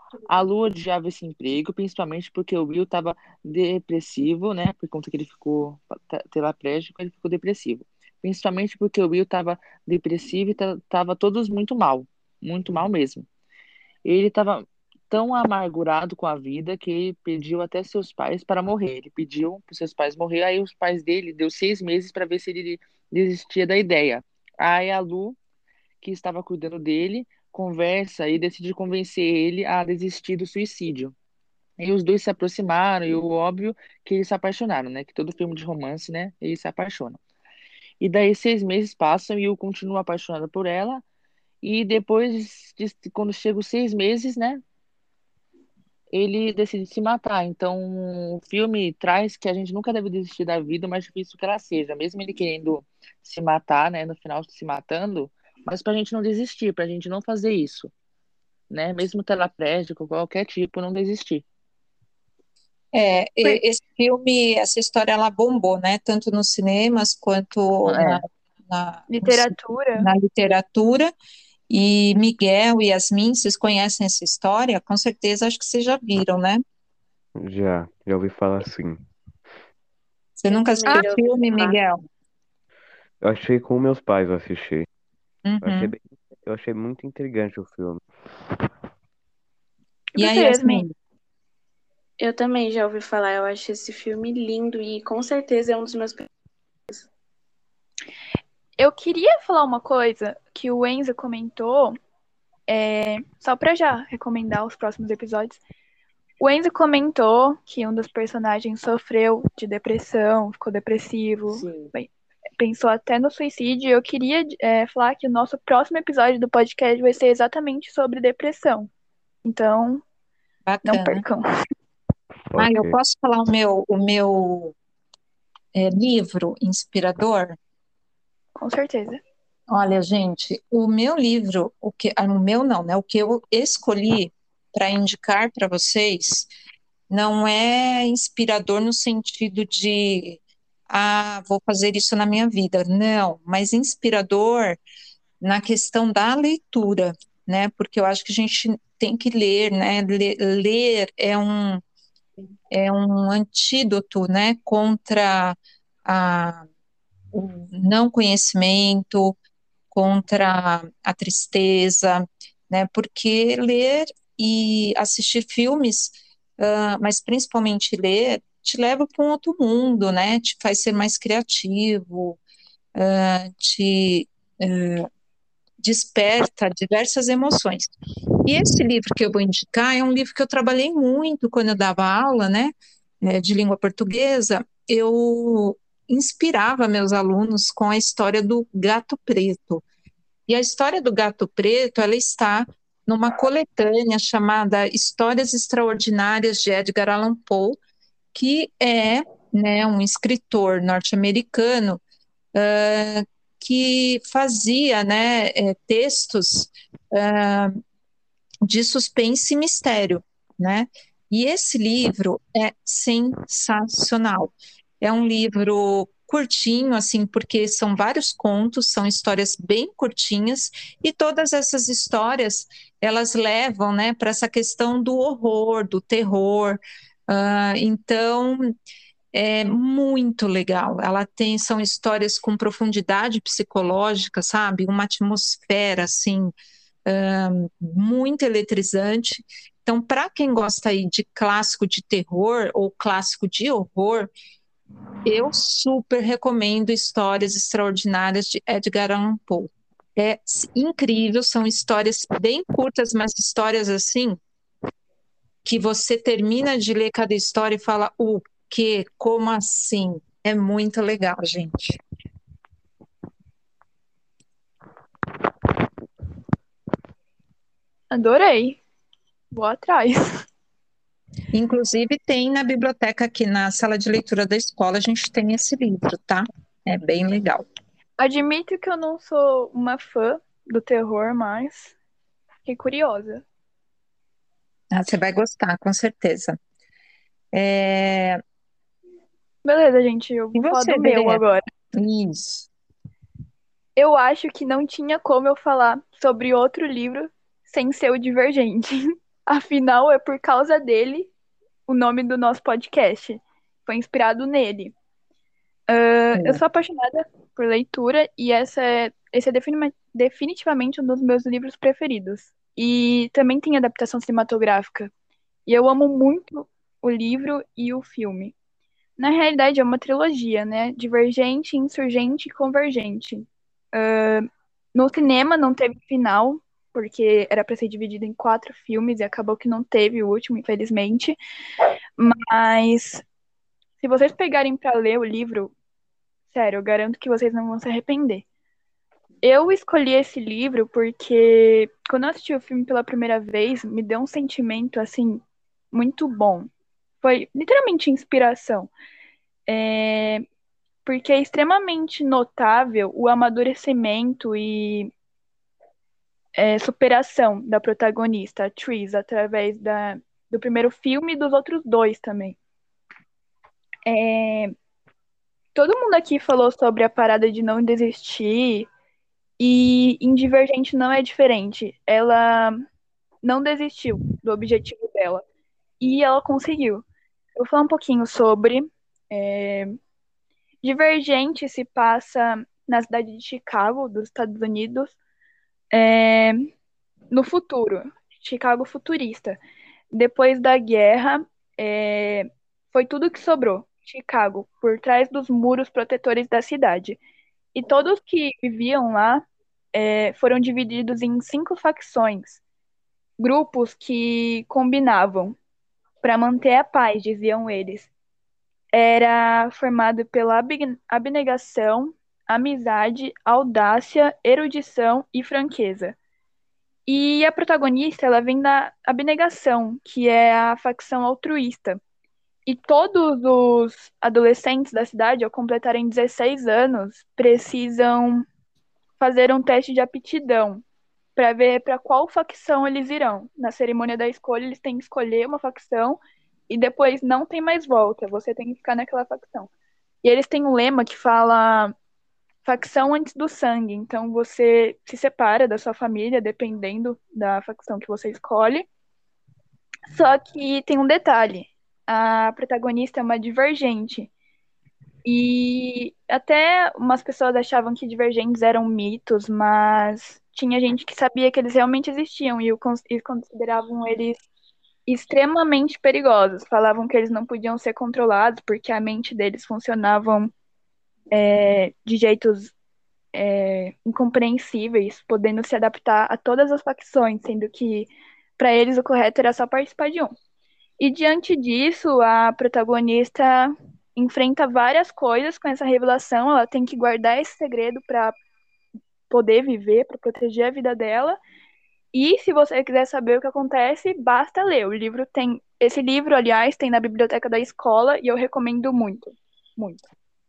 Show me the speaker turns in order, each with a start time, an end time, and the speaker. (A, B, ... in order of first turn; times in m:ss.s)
0:00.3-0:13.3 A
0:14.0-0:25.4 A
0:26.0-0:31.1 A
0:31.8-0:37.2 A
0:38.0-0:41.0 A
0:41.6-0:44.6 A
0:46.1-0:57.9 A
0:58.7-1:01.4 A
1:02.9-1:11.1 B
1:07.9-1:08.2 A
1:09.1-1:10.1 C
1:11.7-1:16.6 B
1:17.4-1:19.0 D
1:20.4-1:22.0 B
1:20.5-1:21.8 E
1:23.2-1:24.9 D
1:25.4-1:25.9 B
1:25.6-1:28.0 D
1:30.1-1:30.8 C
1:30.2-1:30.9 B
1:32.2-1:36.3 E
1:38.8-1:42.0 C
1:42.7-1:45.6 C
1:46.4-1:58.9 C
1:51.5-1:51.9 A
1:59.4-2:00.0 C
2:00.7-2:01.2 B
2:00.8-2:01.5 C
2:02.5-2:03.0 D
2:02.6-2:04.8 B
2:05.7-2:07.6 B
2:08.6-2:09.2 C
2:09.7-2:16.5 B
2:17.1-2:24.8 B
2:25.4-2:31.8 B
2:32.7-2:36.7 B
2:37.3-2:39.4 B
2:39.9-2:52.4 B
2:53.0-2:55.1 B
2:55.8-2:57.9 B
2:58.4-3:09.8 B
3:10.5-3:17.8 B
3:18.3-3:22.0 B
3:22.5-3:27.8 B
3:28.6-3:48.7 B
3:49.3-3:56.5 B
3:57.1-4:04.3 B
4:05.2-4:14.4 B
4:15.6-4:22.0 B
4:28.1-4:28.8 C
4:29.5-4:30.4 C
4:31.5-4:37.7 B
4:38.2-4:41.9 C
4:42.7-4:43.4 C
4:44.9-4:46.6 B
4:47.5-4:48.4 B
4:49.6-4:51.6 C
4:50.5-4:51.4 B
4:51.9-4:52.7 B
4:54.0-5:01.3 C
5:01.9-5:04.9 C
5:05.9-5:15.1 C
5:06.3-5:06.6 B
5:15.7-5:18.5 C
5:19.2-5:31.4 C
5:32.2-5:33.2 C
5:34.0-5:35.7 C
5:36.5-5:38.4 C
5:39.4-5:46.7 C
5:47.2-5:48.9 C
5:49.7-5:50.4 C
5:51.0-5:55.1 C
5:56.6-6:02.6 C
6:04.1-6:04.7 C
6:05.8-6:08.9 C
6:09.6-6:12.8 C
6:13.4-6:15.4 C
6:16.0-6:17.0 C
6:17.6-6:20.0 C
6:20.8-6:25.2 C
6:25.9-6:26.7 C
6:27.3-6:29.6 C
6:30.1-6:37.2 C
6:37.7-6:42.6 C
6:43.4-6:45.6 C
6:46.2-6:48.1 C
6:48.9-6:56.2 C
6:57.1-7:02.0 C
7:02.7-7:08.5 C
7:09.2-7:10.8 C
7:11.4-7:19.7 C
7:20.2-7:21.9 C
7:22.6-7:28.9 C
7:30.1-7:34.3 C
7:35.2-7:44.4 C
7:45.1-7:50.5 C
7:51.3-7:52.7 C
7:53.3-8:00.4 C
8:01.0-8:08.4 C
8:09.3-8:11.4 C
8:12.1-8:20.0 C